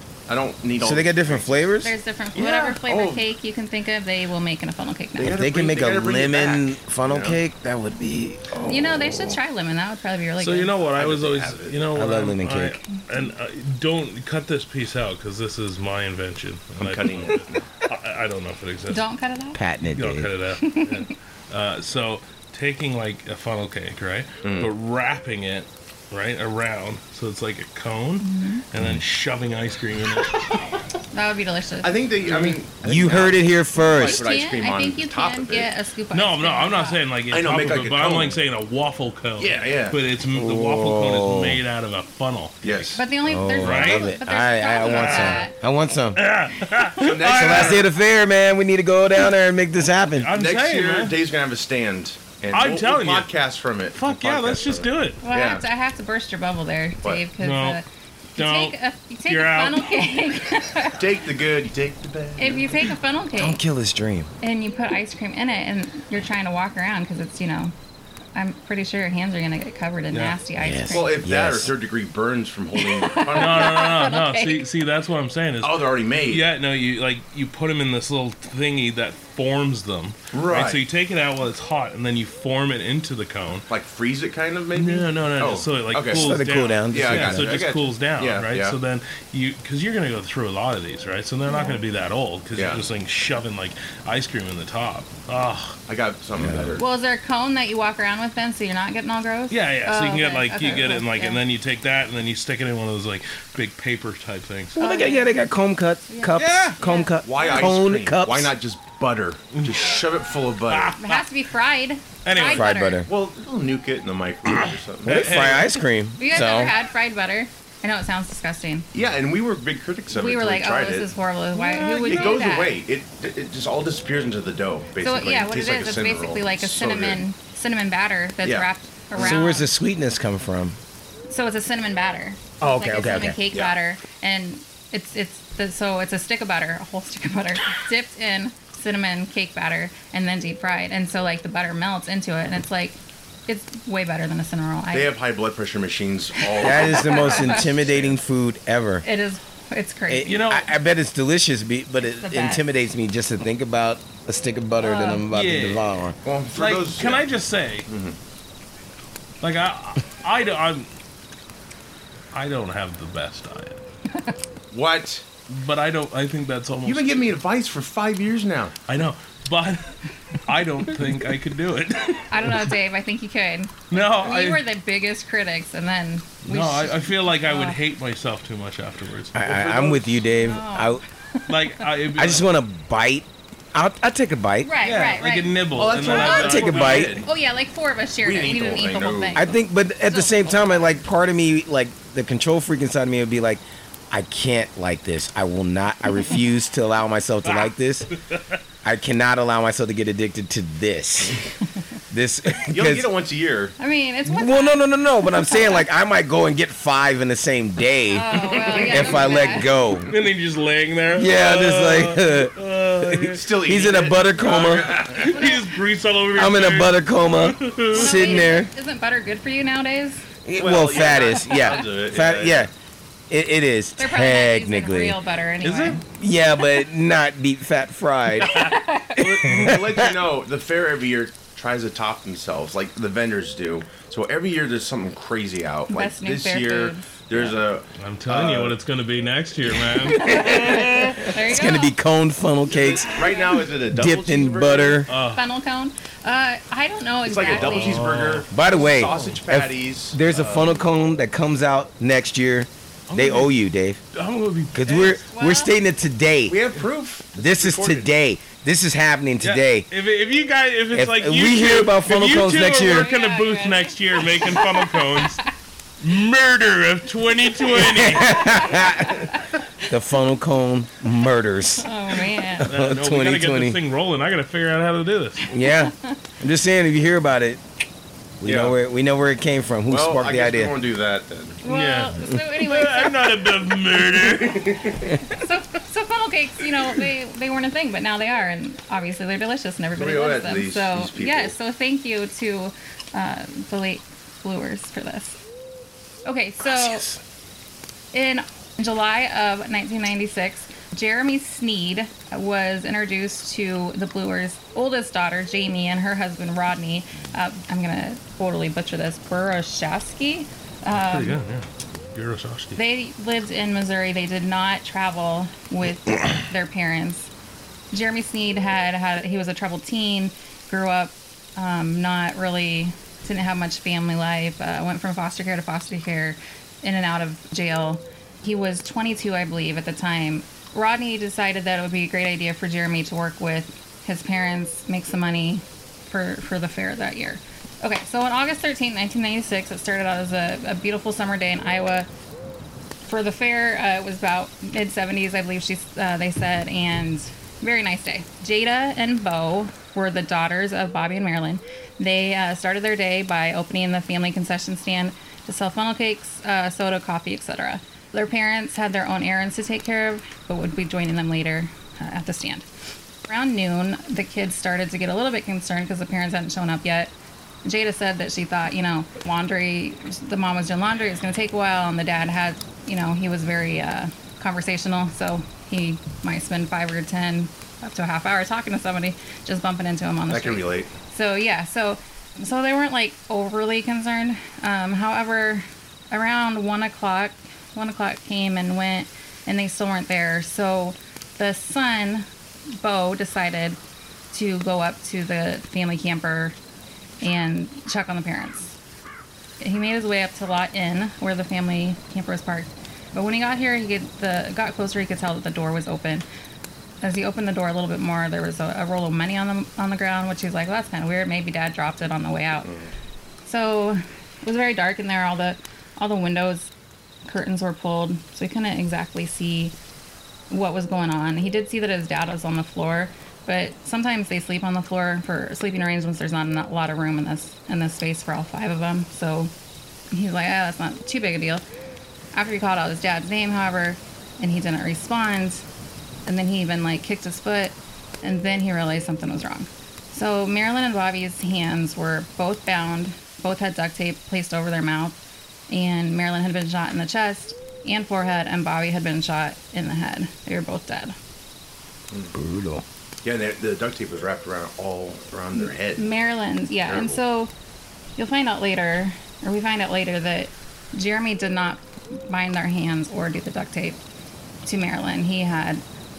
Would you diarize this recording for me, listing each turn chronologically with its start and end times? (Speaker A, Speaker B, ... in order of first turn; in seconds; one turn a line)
Speaker A: 0.3-1.6
Speaker B: 0.8-1.9
Speaker C: 1.8-5.4
Speaker A: 2.4-3.2
Speaker A: 5.2-7.4
Speaker B: 5.2-8.5
Speaker A: 8.5-9.4
Speaker C: 8.6-10.7
Speaker D: 10.4-19.1
Speaker A: 10.8-11.8
Speaker B: 11.9-12.8
Speaker A: 16.8-17.6
Speaker C: 18.9-19.6
Speaker B: 19.5-20.3
Speaker D: 19.9-30.5
Speaker C: 20.6-21.1
Speaker A: 24.4-24.7
Speaker C: 28.2-28.6
Speaker B: 28.8-29.0
Speaker C: 31.1-31.9
Speaker A: 31.8-35.7
Speaker B: 32.8-34.2
Speaker C: 33.9-37.0
Speaker D: 36.1-43.0
Speaker A: 37.3-38.4
Speaker A: 39.4-40.0
Speaker B: 40.3-41.6
Speaker A: 42.6-43.0
Speaker C: 43.0-45.5
Speaker B: 43.2-46.2
Speaker D: 43.6-44.1
Speaker A: 44.8-45.4
Speaker D: 46.1-47.9
Speaker A: 47.0-47.9
Speaker B: 47.2-50.3
Speaker D: 50.1-51.1
Speaker A: 50.3-55.6
Speaker D: 52.5-53.3
Speaker D: 53.9-55.2
Speaker C: 55.2-61.0
Speaker D: 57.4-57.8
Speaker D: 58.4-58.8
Speaker D: 59.3-60.1
Speaker A: 60.9-62.9
Speaker C: 62.4-63.6
Speaker B: 63.4-64.3
Speaker C: 64.4-67.7
Speaker C: 68.3-71.2
Speaker D: 70.1-70.4
Speaker B: 70.6-71.7
Speaker A: 70.9-73.8
Speaker C: 72.8-74.7
Speaker D: 73.3-83.7
Speaker A: 75.6-76.4
Speaker A: 80.3-80.8
Speaker A: 83.7-88.8
Speaker D: 84.7-95.8
Speaker B: 86.1-87.5
Speaker C: 91.5-91.8
Speaker A: 92.5-92.8
Speaker A: 95.9-96.8
Speaker B: 96.4-96.8
Speaker C: 96.8-101.4
Speaker D: 99.5-104.8
Speaker B: 104.7-108.5
Speaker C: 104.8-105.4
Speaker C: 106.1-107.7
Speaker D: 106.3-106.8
Speaker A: 107.2-111.0
Speaker D: 109.5-110.0
Speaker D: 110.7-111.2
Speaker C: 111.0-113.0
Speaker D: 112.2-112.7
Speaker B: 112.4-113.1
Speaker A: 113.0-115.5
Speaker D: 115.0-115.8
Speaker B: 115.0-116.7
Speaker C: 116.2-118.9
Speaker A: 118.9-121.1
Speaker C: 120.1-122.8
Speaker D: 121.5-122.4
Speaker A: 122.0-127.2
Speaker C: 125.0-129.7
Speaker A: 128.4-129.4
Speaker B: 129.1-130.8
Speaker C: 131.3-145.1
Speaker B: 132.6-133.4
Speaker A: 144.9-148.2
Speaker C: 146.4-147.6
Speaker B: 146.6-149.0
Speaker C: 149.0-150.4
Speaker B: 150.1-156.2
Speaker D: 150.2-150.7
Speaker C: 152.0-152.6
Speaker C: 154.8-155.3
Speaker D: 155.3-155.9
Speaker A: 156.2-157.3
Speaker D: 156.5-157.9
Speaker A: 157.9-158.2
Speaker D: 159.4-160.9
Speaker D: 162.3-163.8
Speaker A: 164.7-165.2
Speaker D: 165.5-167.3
Speaker A: 166.8-168.8
Speaker D: 168.9-172.7
Speaker C: 172.3-177.8
Speaker D: 173.9-174.6
Speaker D: 176.4-179.4
Speaker B: 179.3-181.0
Speaker A: 179.4-180.1
Speaker C: 180.3-181.7
Speaker D: 181.5-182.5
Speaker B: 182.1-184.8
Speaker C: 184.6-190.9
Speaker D: 184.8-187.2
Speaker A: 185.7-187.3
Speaker B: 186.1-187.2
Speaker A: 188.2-189.4
Speaker B: 189.3-198.1
Speaker D: 197.4-198.6
Speaker B: 198.8-201.4
Speaker B: 202.1-203.1
Speaker A: 202.6-203.7
Speaker C: 203.8-205.8
Speaker B: 204.2-210.1
Speaker C: 208.1-209.7
Speaker D: 208.3-209.3
Speaker D: 210.0-213.6
Speaker B: 211.1-215.0
Speaker A: 213.3-215.3
Speaker D: 214.2-218.4
Speaker C: 215.2-215.7
Speaker B: 216.3-218.7
Speaker C: 217.9-220.3
Speaker B: 220.4-222.7
Speaker A: 220.6-222.7
Speaker C: 221.5-221.8
Speaker B: 223.3-225.2
Speaker C: 224.0-226.0
Speaker D: 225.6-226.0
Speaker B: 226.1-228.6
Speaker C: 228.4-229.3
Speaker A: 229.2-238.8
Speaker B: 229.4-230.1
Speaker D: 229.5-229.7
Speaker C: 235.9-237.1
Speaker D: 237.3-241.0
Speaker B: 240.1-245.1
Speaker C: 240.2-241.9
Speaker A: 242.7-245.1
Speaker C: 243.2-243.6
Speaker D: 245.1-245.4
Speaker C: 245.3-248.1
Speaker A: 247.2-250.8
Speaker D: 247.5-249.4
Speaker B: 248.5-254.0
Speaker D: 253.1-253.5
Speaker D: 254.1-255.2
Speaker B: 254.7-256.6
Speaker C: 255.2-255.7
Speaker A: 256.5-258.1
Speaker B: 257.4-259.9
Speaker D: 259.4-265.4
Speaker B: 260.9-263.1
Speaker C: 262.8-265.5
Speaker D: 266.0-268.8
Speaker B: 267.7-269.3
Speaker C: 268.2-269.5
Speaker B: 269.9-273.8
Speaker C: 271.8-272.7
Speaker D: 272.6-275.5
Speaker B: 275.5-277.6
Speaker C: 275.6-276.1
Speaker B: 278.4-280.7
Speaker A: 278.4-278.7
Speaker A: 279.9-281.6
Speaker C: 281.6-283.5
Speaker D: 281.6-285.1
Speaker A: 284.3-285.1
Speaker C: 285.2-295.4
Speaker A: 289.9-291.5
Speaker C: 296.2-297.1
Speaker B: 296.6-297.2
Speaker C: 298.1-311.4
Speaker D: 310.9-312.8
Speaker C: 312.8-317.3
Speaker C: 317.9-342.1
Speaker C: 343.0-362.6
Speaker C: 363.3-367.1
Speaker C: 367.6-392.3
Speaker A: 380.3-380.9
Speaker C: 392.8-393.8
Speaker C: 394.3-396.5
Speaker C: 397.2-398.8
Speaker C: 399.6-406.2
Speaker C: 407.0-412.7
Speaker A: 412.6-412.9
Speaker C: 413.4-416.7
Speaker C: 417.2-419.7
Speaker C: 420.5-429.5
Speaker C: 430.1-431.6
Speaker C: 432.3-435.6
Speaker C: 436.2-445.1
Speaker C: 445.7-451.1
Speaker B: 452.3-452.8
Speaker A: 453.2-456.1
Speaker C: 455.5-457.5
Speaker A: 456.9-457.2
Speaker C: 458.2-464.0
Speaker C: 464.6-465.8